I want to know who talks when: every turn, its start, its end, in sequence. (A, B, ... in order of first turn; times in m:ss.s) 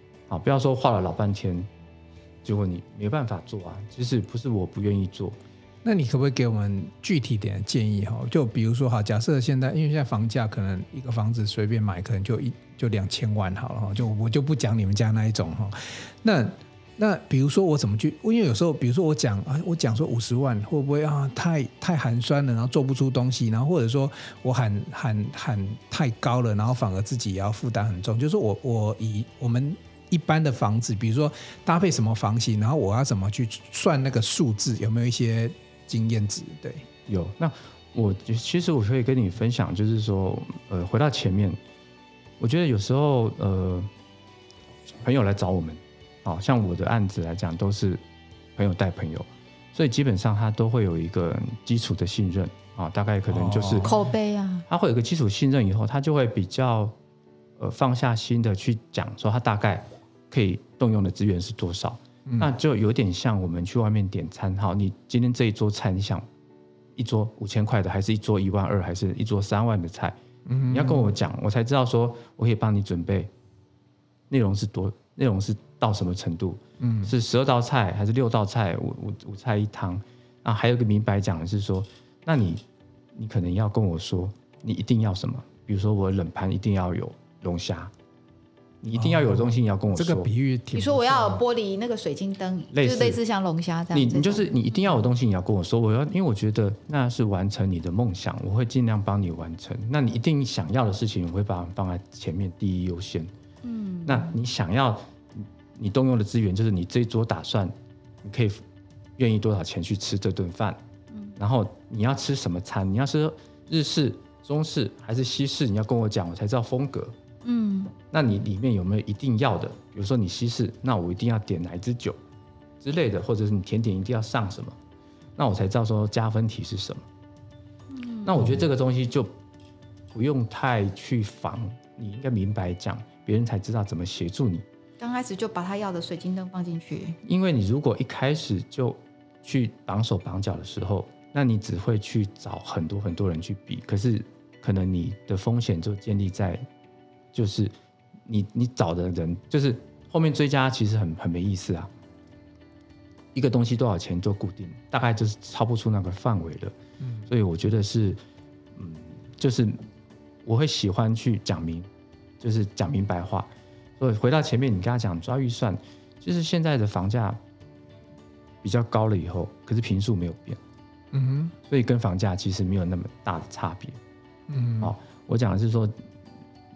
0:00.3-0:01.7 A
0:02.4-0:05.4 A
0:05.8-0:36.8 B
0:37.1-0:41.6 A
0:42.4-0:43.9 A
0:45.0-0:48.0 A
0:48.6-0:53.9 A
0:53.3-0:54.0 B
0:53.8-0:54.6 C
0:54.7-0:56.9 A
0:57.6-1:06.2 A
1:07.0-1:10.2 A
1:10.4-1:11.1 B
1:10.7-1:13.3 A
1:14.3-1:22.6 A
1:16.8-1:17.1 B
1:23.1-1:27.9 A
1:28.8-1:30.3 A
1:28.9-1:31.4 B
1:30.7-1:34.5 C
1:32.7-1:33.2 A
1:33.9-1:43.3 A
1:43.6-1:44.3 C
1:44.0-1:48.6 A
1:49.2-1:50.8 A
1:51.4-1:57.1 A
1:57.4-1:57.9 C
1:58.1-2:02.2 A
2:02.8-2:04.8 A
2:05.4-2:07.0 A
2:07.9-2:08.4 C
2:08.2-2:09.3 A
2:10.1-2:14.6 A
2:15.0-2:17.2 C
2:17.2-2:26.6 A
2:27.3-2:27.7 A
2:28.2-2:31.9 A
2:33.3-2:36.7 A
2:37.0-2:37.3 B
2:37.3-2:38.2 A
2:38.8-2:39.8 A
2:40.4-2:41.9 A
2:42.4-2:47.4 A
2:48.6-2:50.6 A
2:51.1-2:51.5 B
2:51.7-2:54.0 A
2:54.5-2:54.9 B
2:54.8-2:56.0 A